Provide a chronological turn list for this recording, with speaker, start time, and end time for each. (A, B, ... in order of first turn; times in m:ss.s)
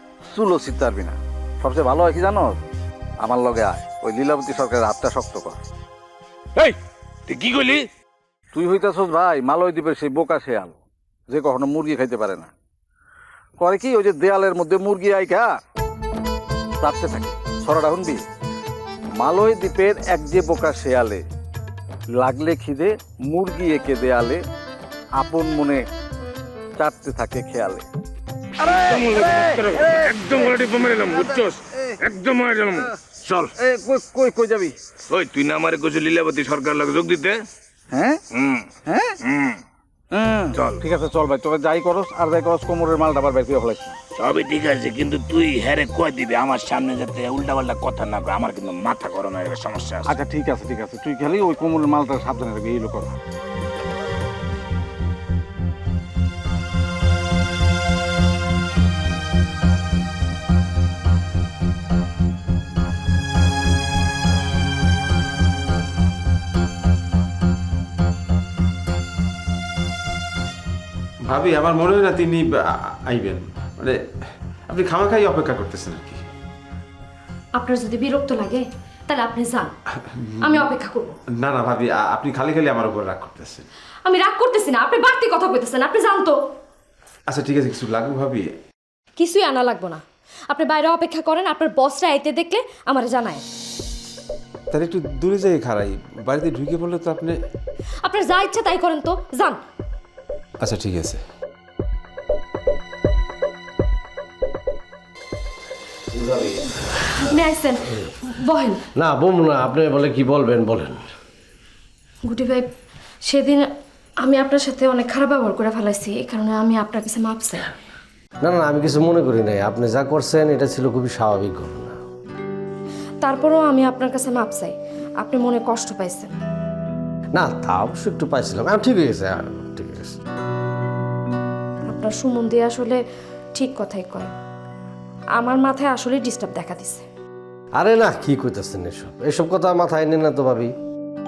0:00.3-0:02.6 A
0:03.2-0:05.6 A
0:07.3-0:07.8 B
0:08.5-0:10.8 A
0:11.3-0:12.5 A
0:13.6-0:15.5 A
0:16.8-0:18.2 A
0:19.2-0:21.2 A
0:22.1-0:24.4 A
0:25.2-0:25.8 A
0:26.8-0:27.8 A
0:28.6-0:32.0 A
0:28.8-0:33.5 B
0:33.6-0:34.7 A
0:35.1-0:37.4 B
0:37.9-0:38.2 A
0:38.4-0:38.7 B
0:38.9-0:39.1 A
0:39.3-0:39.6 B
0:40.1-0:44.0 A
0:40.5-0:40.8 B
0:44.2-0:50.1 B
0:50.1-0:53.2 A
1:11.3-1:14.0 C
1:14.7-1:16.2 C
1:17.6-1:19.7 D
1:20.2-1:20.7 C
1:20.5-1:21.1 D
1:21.4-1:23.7 C
1:24.1-1:26.4 D
1:27.3-1:28.5 C
1:29.2-1:30.0 D
1:30.5-1:33.4 D
1:34.7-1:37.4 C
1:38.1-1:39.6 D
1:40.6-1:41.2 C
1:47.3-1:47.8 D
1:48.5-1:48.8 D
1:49.0-1:51.0 E
1:52.3-1:52.6 D
1:53.3-1:53.6 D
1:54.2-1:57.6 D
1:58.4-2:02.0 E
2:03.2-2:06.3 D
2:07.4-2:10.2 E
2:11.9-2:13.0 D
2:13.6-2:14.3 D
2:15.4-2:17.0 D
2:17.8-2:20.7 E